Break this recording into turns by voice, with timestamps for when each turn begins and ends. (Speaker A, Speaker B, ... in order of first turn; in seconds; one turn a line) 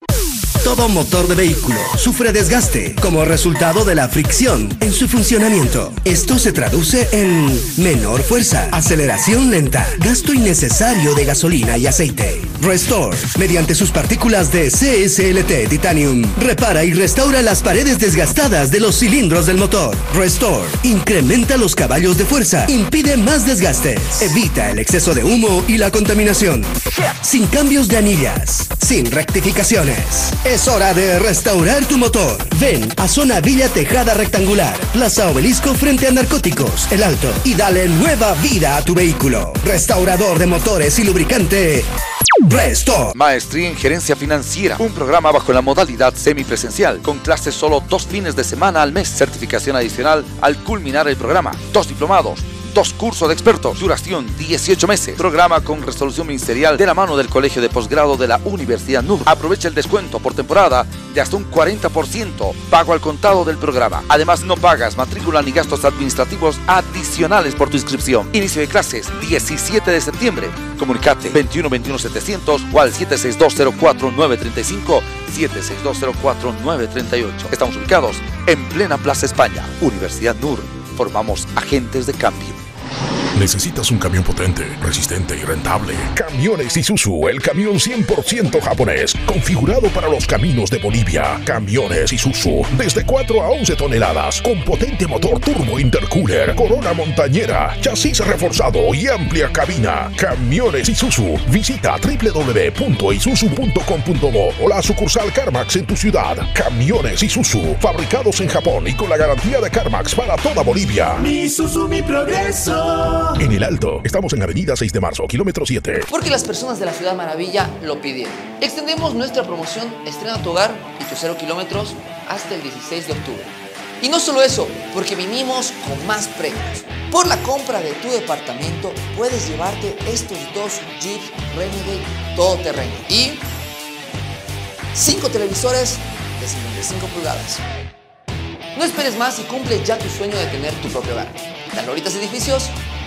Speaker A: 0.7-26.7
Speaker A: 27.3-41.6
Speaker A: 42.5-43.0
Speaker B: 43.1-82.6
Speaker C: 83.3-111.2
Speaker D: 111.2-113.4
Speaker C: 113.4-116.1
Speaker E: 116.1-133.4
Speaker E: 134.9-137.6
Speaker E: 138.7-142.8